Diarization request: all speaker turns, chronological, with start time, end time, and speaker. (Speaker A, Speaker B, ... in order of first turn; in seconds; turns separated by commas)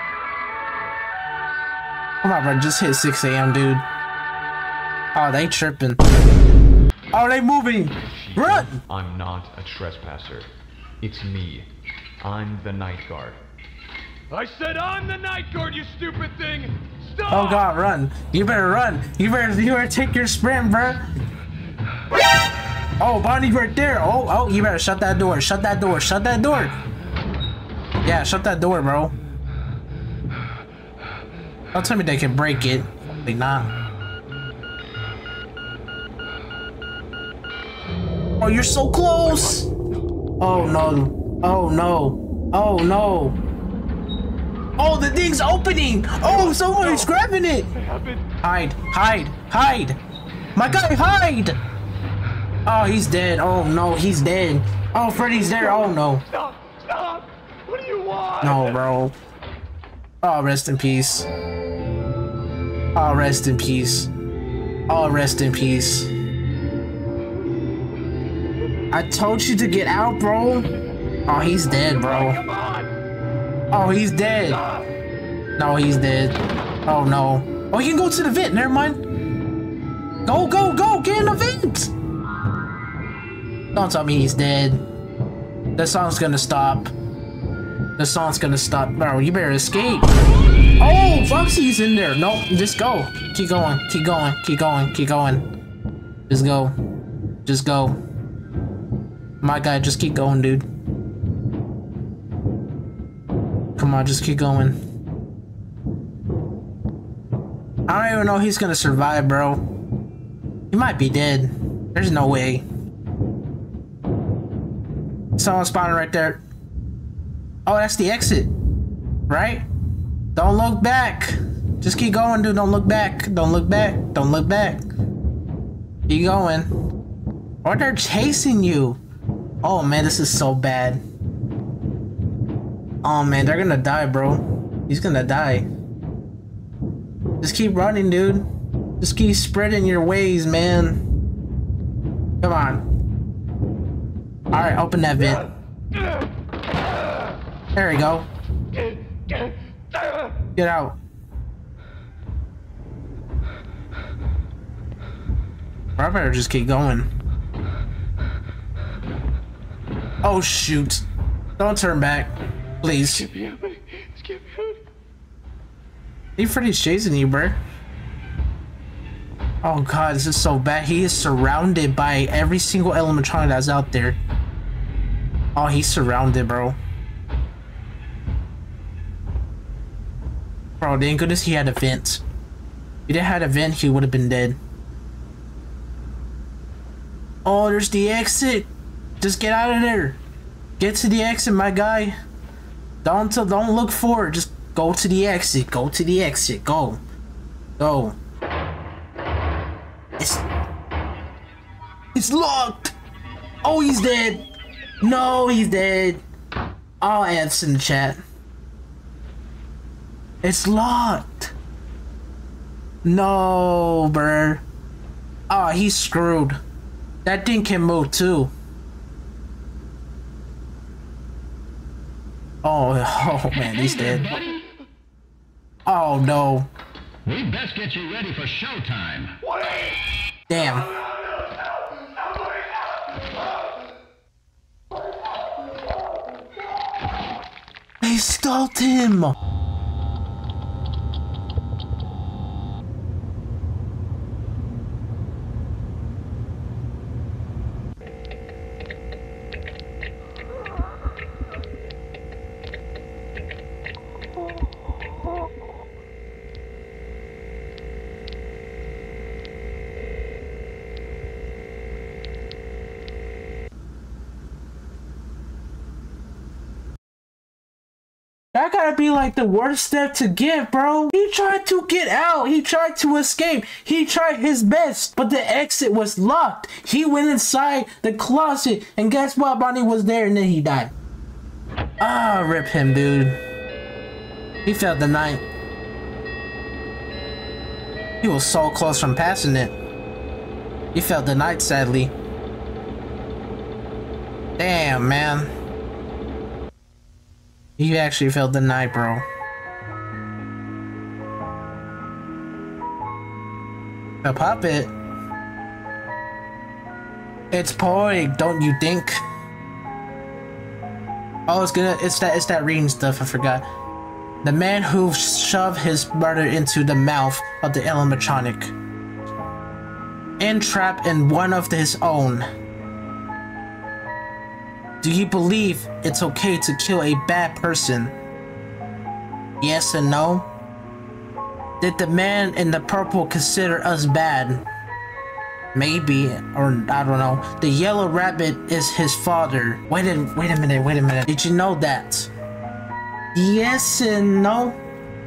Speaker A: 2.2-3.9, Speaker A: 5.1-6.0, Speaker A: 7.1-8.8, Speaker B: 8.1-10.5, Speaker B: 11.0-11.7, Speaker B: 12.2-13.4, Speaker B: 14.3-17.4, Speaker A: 17.3-21.1, Speaker A: 23.0-26.8, Speaker A: 28.0-29.1, Speaker A: 31.7-33.8, Speaker A: 38.4-39.7, Speaker A: 40.4-43.4, Speaker A: 44.8-47.7, Speaker A: 48.4-50.0, Speaker A: 50.5-51.6, Speaker A: 52.7-56.2, Speaker C: 56.4-58.4, Speaker A: 58.4-59.1, Speaker A: 60.2-61.3, Speaker A: 63.0-64.1, Speaker A: 64.9-66.1, Speaker A: 68.9-70.7, Speaker A: 71.3-72.5, Speaker C: 72.5-72.9, Speaker A: 73.7-74.7, Speaker A: 75.6-79.0, Speaker A: 80.2-81.9, Speaker A: 83.7-84.8, Speaker A: 85.8-86.9, Speaker A: 88.0-90.1, Speaker A: 90.8-95.5, Speaker A: 96.3-96.8, Speaker A: 97.5-98.0, Speaker A: 99.4-100.7, Speaker A: 103.8-104.8, Speaker A: 107.9-109.6, Speaker A: 110.7-112.7, Speaker A: 115.4-116.4, Speaker A: 117.7-118.5, Speaker A: 119.3-119.7, Speaker A: 120.3-124.9, Speaker A: 126.1-126.7, Speaker A: 127.6-129.0, Speaker A: 129.6-131.0, Speaker A: 133.0-135.7, Speaker A: 137.4-138.5, Speaker A: 139.0-141.0, Speaker A: 142.4-142.8, Speaker A: 144.5-145.5, Speaker A: 147.8-148.3, Speaker A: 150.6-151.0, Speaker A: 156.0-157.1, Speaker A: 160.2-161.1, Speaker A: 161.6-163.3, Speaker B: 163.3-163.6, Speaker C: 163.4-163.7, Speaker C: 164.2-164.6, Speaker A: 166.4-167.6, Speaker A: 169.6-174.2, Speaker A: 175.6-176.8, Speaker A: 180.8-182.2, Speaker A: 183.1-184.6, Speaker A: 187.4-188.7, Speaker A: 189.2-190.2, Speaker A: 190.8-192.2, Speaker A: 193.0-197.0, Speaker A: 197.8-198.2, Speaker A: 200.2-200.4, Speaker A: 202.2-202.9, Speaker A: 203.6-204.5, Speaker A: 205.0-206.2, Speaker A: 207.0-208.2, Speaker A: 210.4-211.5, Speaker A: 213.0-214.6, Speaker A: 215.5-216.6, Speaker A: 217.2-218.5, Speaker A: 222.6-224.3, Speaker D: 223.7-224.5, Speaker A: 225.9-226.7, Speaker D: 227.3-229.4, Speaker A: 230.5-230.9, Speaker A: 238.0-239.4, Speaker A: 268.5-280.9, Speaker A: 282.0-283.4, Speaker A: 284.6-285.4, Speaker A: 288.2-289.7, Speaker A: 290.9-292.1, Speaker A: 294.6-295.5, Speaker A: 297.8-299.2, Speaker A: 304.2-304.9, Speaker A: 307.5-309.2, Speaker A: 311.5-313.7, Speaker A: 314.4-318.7, Speaker A: 320.4-322.5, Speaker A: 325.0-328.1, Speaker A: 329.6-330.5, Speaker A: 331.8-334.6, Speaker A: 335.7-342.3, Speaker A: 343.3-344.8